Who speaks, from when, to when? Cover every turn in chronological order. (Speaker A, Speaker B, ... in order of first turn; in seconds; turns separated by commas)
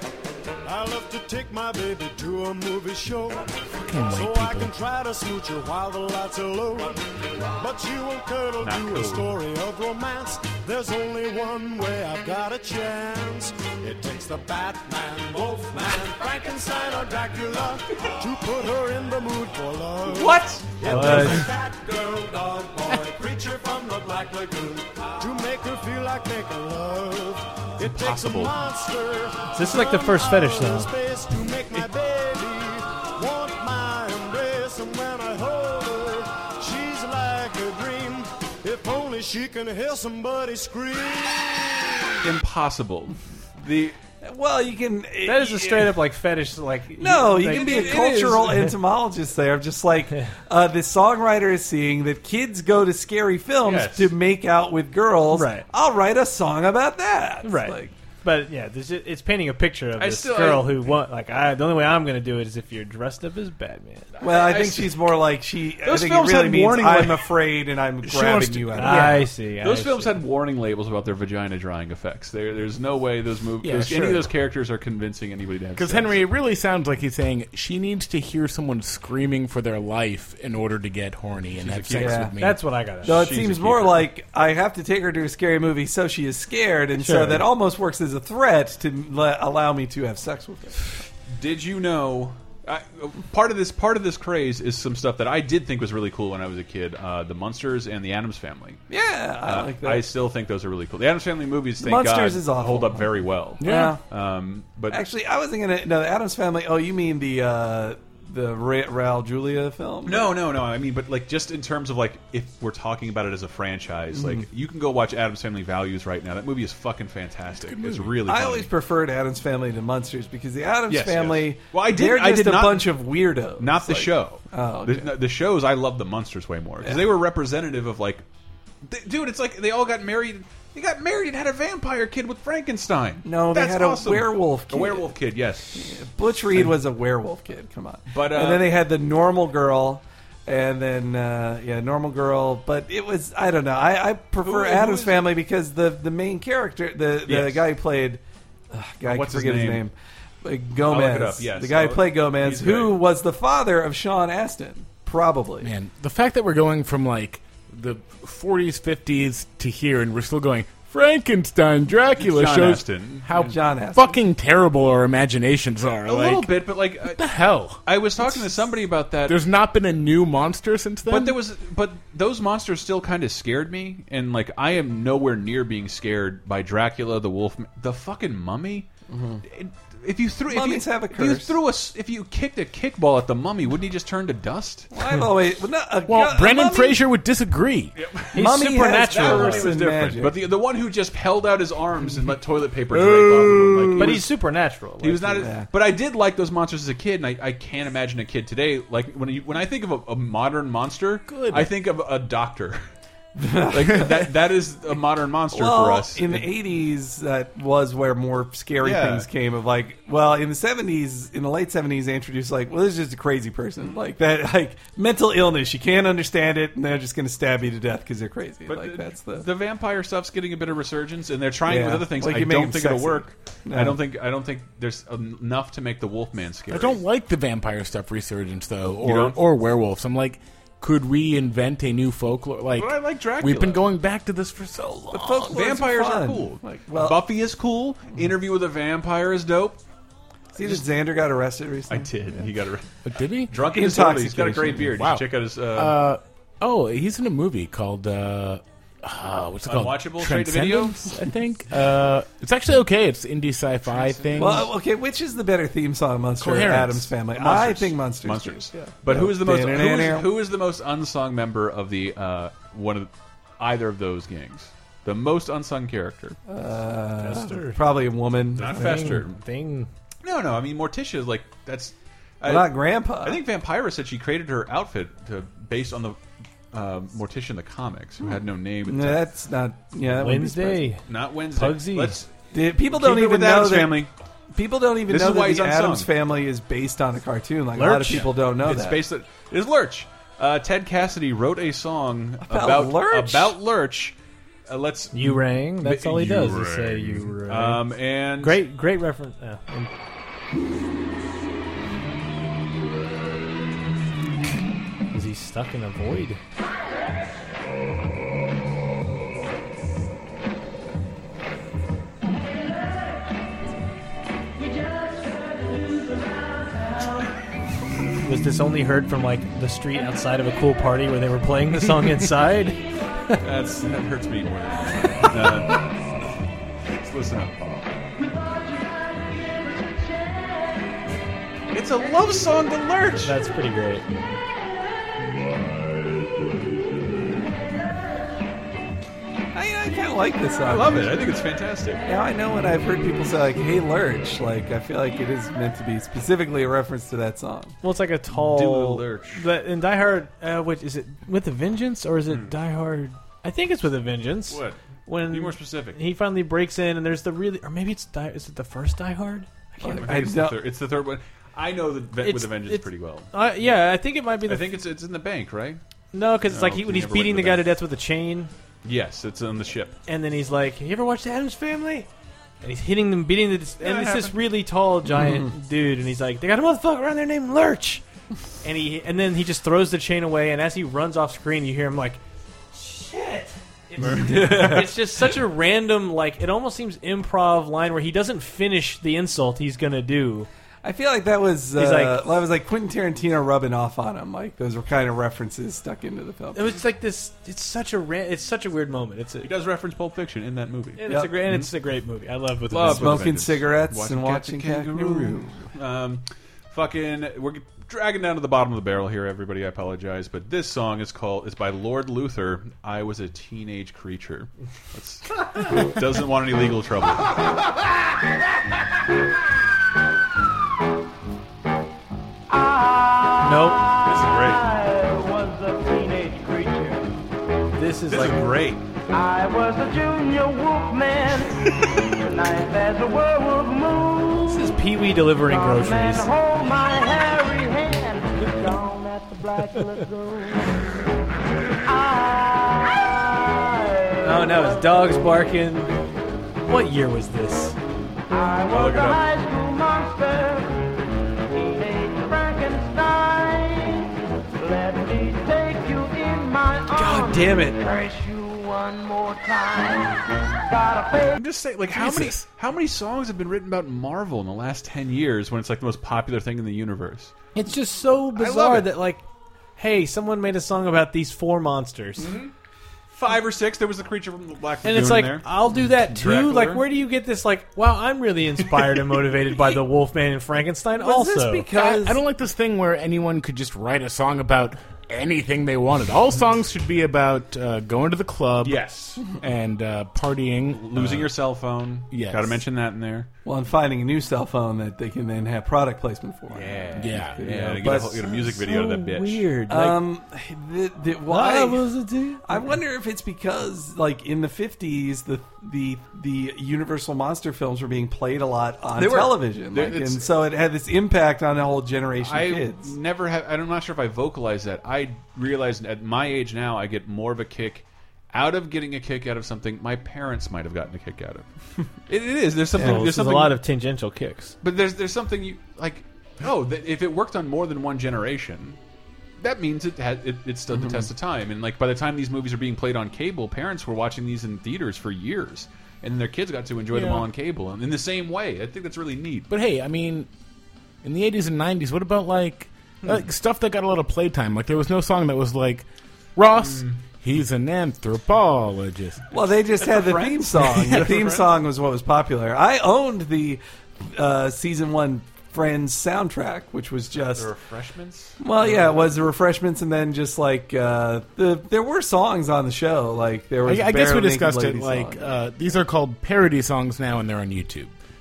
Speaker A: 0.7-3.5, Speaker B: 3.8-4.7, Speaker A: 4.0-7.0, Speaker A: 7.6-41.9, Speaker C: 8.6-9.3, Speaker C: 20.0-21.4, Speaker D: 20.8-21.5, Speaker C: 27.8-28.6, Speaker D: 29.5-30.9, Speaker C: 42.2-44.0, Speaker E: 44.2-46.0, Speaker D: 45.2-48.4, Speaker E: 47.0-57.9, Speaker C: 47.4-48.6, Speaker C: 53.6-54.1, Speaker D: 55.3-55.6, Speaker D: 57.4-64.1, Speaker C: 60.0-60.7, Speaker C: 64.2-65.0, Speaker E: 64.2-69.3, Speaker C: 65.8-67.4, Speaker C: 68.0-76.2, Speaker D: 68.7-70.2, Speaker B: 68.8-69.2, Speaker D: 73.6-74.2, Speaker B: 75.8-82.6, Speaker C: 81.5-82.3, Speaker E: 82.0-82.3, Speaker D: 82.4-83.2, Speaker C: 83.0-84.1, Speaker E: 83.0-90.9, Speaker D: 87.0-87.5, Speaker C: 91.3-98.8, Speaker E: 98.9-100.1, Speaker C: 99.4-105.0, Speaker E: 101.8-104.0, Speaker B: 103.6-104.0, Speaker E: 104.9-110.3, Speaker C: 110.0-118.7, Speaker E: 114.1-114.5, Speaker B: 117.6-118.2, Speaker E: 118.3-125.1, Speaker C: 120.9-123.0, Speaker C: 123.6-128.2, Speaker E: 126.8-127.1, Speaker C: 128.8-135.9, Speaker E: 133.2-135.1, Speaker E: 135.8-148.2, Speaker C: 138.1-138.7, Speaker C: 144.4-145.3, Speaker C: 147.2-147.7, Speaker E: 148.7-155.7, Speaker C: 149.0-149.8, Speaker C: 150.8-153.0, Speaker B: 155.6-167.8, Speaker C: 162.2-163.5, Speaker E: 163.3-164.2, Speaker C: 166.1-167.2, Speaker C: 167.8-169.4, Speaker B: 169.2-171.4, Speaker C: 171.1-178.9, Speaker E: 179.1-179.4, Speaker C: 179.4-184.9, Speaker E: 180.5-181.5, Speaker E: 184.9-187.0, Speaker B: 186.1-187.9, Speaker C: 187.9-194.3, Speaker D: 188.3-189.7, Speaker E: 188.3-190.4, Speaker E: 193.7-194.1, Speaker D: 194.0-195.4, Speaker C: 195.0-202.8, Speaker E: 195.3-195.7, Speaker B: 201.3-201.7, Speaker E: 203.4-204.3, Speaker C: 203.7-206.5, Speaker E: 205.5-219.4, Speaker C: 208.8-209.3, Speaker C: 218.7-227.0, Speaker E: 221.7-224.0, Speaker B: 226.7-235.6, Speaker C: 229.0-229.4, Speaker C: 232.8-233.8, Speaker E: 235.1-237.2, Speaker C: 235.4-239.8, Speaker E: 240.6-242.1, Speaker C: 241.9-242.9, Speaker B: 243.0-243.6, Speaker C: 243.5-246.0, Speaker E: 243.6-244.9, Speaker B: 244.9-254.7, Speaker C: 249.6-251.1, Speaker C: 253.8-254.7, Speaker E: 254.4-260.3, Speaker B: 256.4-257.1, Speaker C: 257.3-266.4, Speaker E: 266.5-269.2, Speaker D: 267.2-267.8, Speaker C: 268.6-269.4, Speaker D: 268.6-269.9, Speaker C: 270.2-276.2, Speaker E: 272.4-273.4, Speaker C: 276.7-279.2, Speaker E: 278.2-280.9, Speaker D: 280.1-281.0, Speaker C: 281.1-282.3, Speaker D: 281.5-282.2, Speaker E: 282.5-289.0, Speaker C: 282.9-284.1, Speaker C: 285.1-286.1, Speaker D: 287.8-288.3, Speaker C: 288.6-294.1, Speaker E: 292.4-293.5, Speaker C: 294.7-298.6, Speaker D: 295.1-297.9, Speaker D: 298.4-299.9, Speaker D: 305.1-306.4, Speaker D: 318.2-322.8, Speaker C: 323.4-325.8, Speaker C: 327.0-327.9, Speaker F: 329.7-330.4, Speaker C: 331.7-333.3, Speaker D: 333.2-334.0, Speaker E: 339.5-341.3, Speaker C: 340.6-342.0, Speaker E: 342.1-347.8, Speaker D: 347.8-360.0, Speaker C: 348.3-349.4, Speaker C: 354.5-354.8, Speaker C: 355.3-356.0, Speaker E: 359.8-360.6, Speaker C: 359.8-363.3, Speaker D: 362.2-364.7, Speaker C: 364.5-365.8, Speaker D: 366.1-368.5, Speaker C: 366.5-367.6, Speaker C: 368.8-369.9, Speaker D: 370.1-372.1, Speaker D: 372.6-378.0, Speaker C: 373.8-374.4, Speaker E: 375.2-375.4, Speaker D: 378.6-382.2, Speaker D: 382.7-390.5, Speaker C: 384.0-384.9, Speaker E: 384.1-384.9, Speaker E: 390.8-396.8, Speaker D: 391.8-392.2, Speaker D: 396.5-399.5, Speaker C: 399.4-401.7, Speaker D: 401.0-403.2, Speaker E: 401.1-401.4, Speaker C: 402.7-417.4, Speaker E: 402.8-405.6, Speaker F: 422.5-427.0, Speaker D: 423.4-423.8, Speaker C: 424.0-424.6, Speaker D: 427.7-428.4, Speaker C: 428.1-428.8, Speaker F: 429.1-434.8, Speaker D: 434.4-436.3, Speaker F: 435.4-440.7, Speaker F: 441.9-444.9, Speaker D: 444.2-445.9, Speaker D: 446.6-447.8, Speaker F: 448.3-450.8, Speaker C: 448.6-449.3, Speaker F: 451.5-461.3, Speaker E: 457.0-457.8, Speaker C: 461.3-467.3, Speaker B: 461.9-462.4, Speaker D: 467.6-469.2, Speaker C: 468.3-468.9, Speaker D: 469.8-472.3, Speaker C: 472.2-472.5, Speaker C: 473.1-476.8, Speaker D: 474.8-481.7, Speaker E: 481.0-482.2, Speaker B: 481.7-488.9, Speaker C: 488.6-489.2, Speaker B: 489.4-491.3, Speaker C: 490.7-493.3, Speaker B: 492.1-492.6, Speaker E: 493.4-498.4, Speaker C: 496.5-499.5, Speaker B: 496.9-497.4, Speaker D: 498.2-500.0, Speaker E: 499.7-501.9, Speaker D: 501.3-502.6, Speaker E: 502.4-512.9, Speaker C: 508.9-510.3, Speaker C: 512.2-521.5, Speaker C: 522.1-523.6, Speaker D: 522.7-524.5, Speaker C: 524.6-528.8, Speaker C: 529.4-539.5, Speaker E: 530.7-531.0, Speaker B: 536.9-537.2, Speaker B: 539.5-540.3, Speaker B: 541.0-549.2, Speaker C: 546.5-547.0, Speaker E: 549.3-557.5, Speaker C: 549.4-551.5, Speaker C: 557.1-559.1, Speaker E: 558.4-565.2, Speaker B: 563.6-567.9